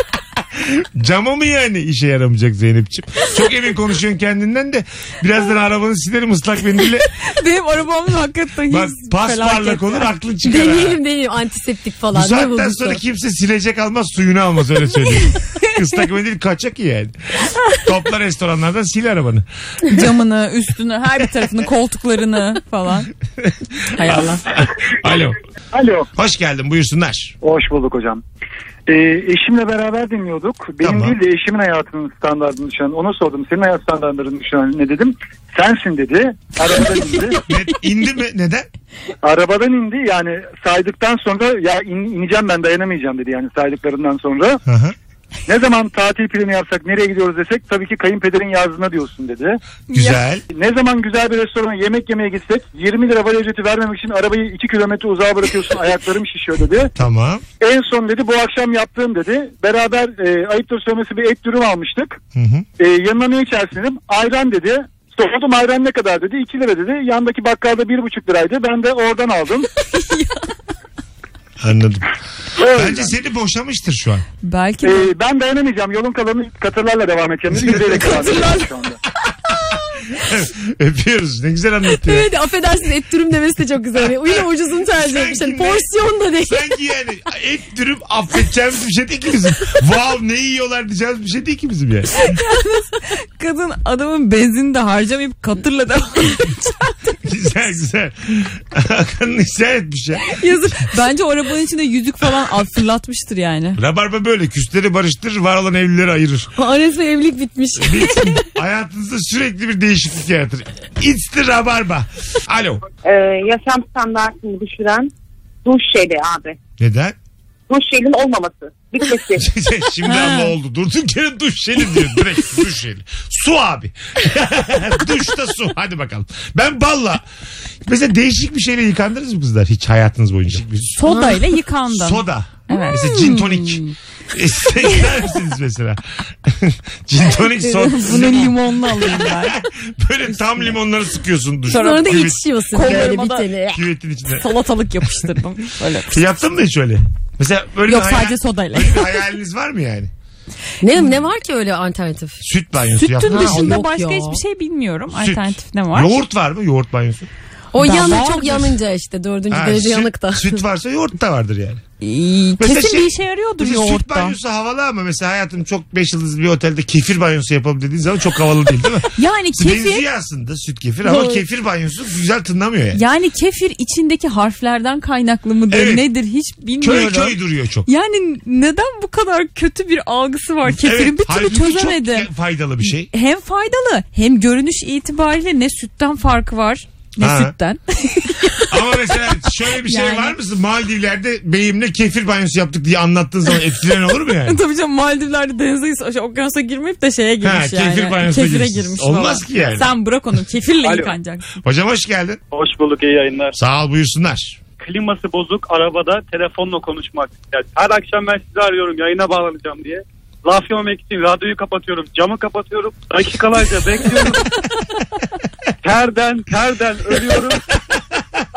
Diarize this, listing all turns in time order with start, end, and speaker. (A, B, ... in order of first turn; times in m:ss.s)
0:00.6-0:07.1 A
0:07.3-0:10.1 B
0:08.7-0:11.0 A
0:10.4-0:13.0 C
0:12.1-0:17.1 A
0:17.8-0:19.4 A
0:19.9-0:23.1 B
0:23.4-0:25.4 A
0:23.9-0:24.4 B
0:25.7-0:26.1 D
0:26.1-0:27.4 A
0:27.4-0:28.2 D
0:28.9-0:37.4 D
0:30.8-0:31.1 A
0:37.5-0:38.7 A
0:39.2-0:44.6 D
0:44.6-0:44.9 A
0:45.5-0:49.6 D
0:49.9-0:50.2 B
0:49.9-0:50.4 A
0:50.5-0:56.9 D
0:56.9-0:57.4 A
0:57.6-1:02.2 D
1:02.3-1:02.6 A
1:02.8-1:09.7 D
1:09.9-1:10.5 B
1:11.6-1:12.0 A
1:12.6-1:13.1 D
1:12.7-1:14.2 A
1:14.4-1:15.1 B
1:14.8-1:19.0 D
1:20.1-1:22.3 A
1:22.0-1:26.7 C
1:24.0-1:25.9 A
1:26.5-1:32.4 A
1:32.2-1:37.2 B
1:37.2-1:40.4 A
1:40.3-1:43.8 B
1:43.8-1:46.5 A
1:46.6-1:48.4 C
1:47.8-1:52.8 A
1:53.0-1:55.1 E
1:55.6-1:56.6 E
1:56.8-1:57.1 A
1:57.7-1:59.4 E
1:59.4-2:07.2 A
2:00.0-2:00.5 B
2:07.8-2:11.3 A
2:10.9-2:13.9 B
2:11.0-2:11.4 C
2:11.9-2:23.2 A
2:17.3-2:19.6 B
2:20.3-2:20.7 B
2:21.7-2:23.5 B
2:21.7-2:23.8 C
2:23.7-2:24.4 A
2:24.3-2:26.4 B
2:26.1-2:30.1 A
2:27.9-2:29.2 B
2:30.8-2:32.4 C
2:32.4-2:33.8 A
2:33.0-2:36.1 B
2:33.2-2:34.4 C
2:35.1-2:37.3 A
2:37.7-2:40.6 C
2:37.8-2:38.8 B
2:39.5-2:41.8 A
2:42.0-2:44.4 B
2:42.6-2:53.0 A
2:49.1-2:50.0 B
2:51.0-2:51.4 B
2:52.9-3:02.3 B
2:55.7-2:56.0 A
2:56.8-2:57.9 A
3:00.7-3:03.1 A
3:02.8-3:09.0 B
3:07.2-3:07.5 A
3:08.7-3:14.6 A
3:09.7-3:10.4 B
3:14.4-3:21.5 B
3:17.4-3:19.9 A
3:20.8-3:21.1 F
3:21.6-3:22.4 A
3:22.5-3:23.6 F
3:23.6-3:24.6 A
3:24.8-3:34.5 F
3:35.8-3:37.6 F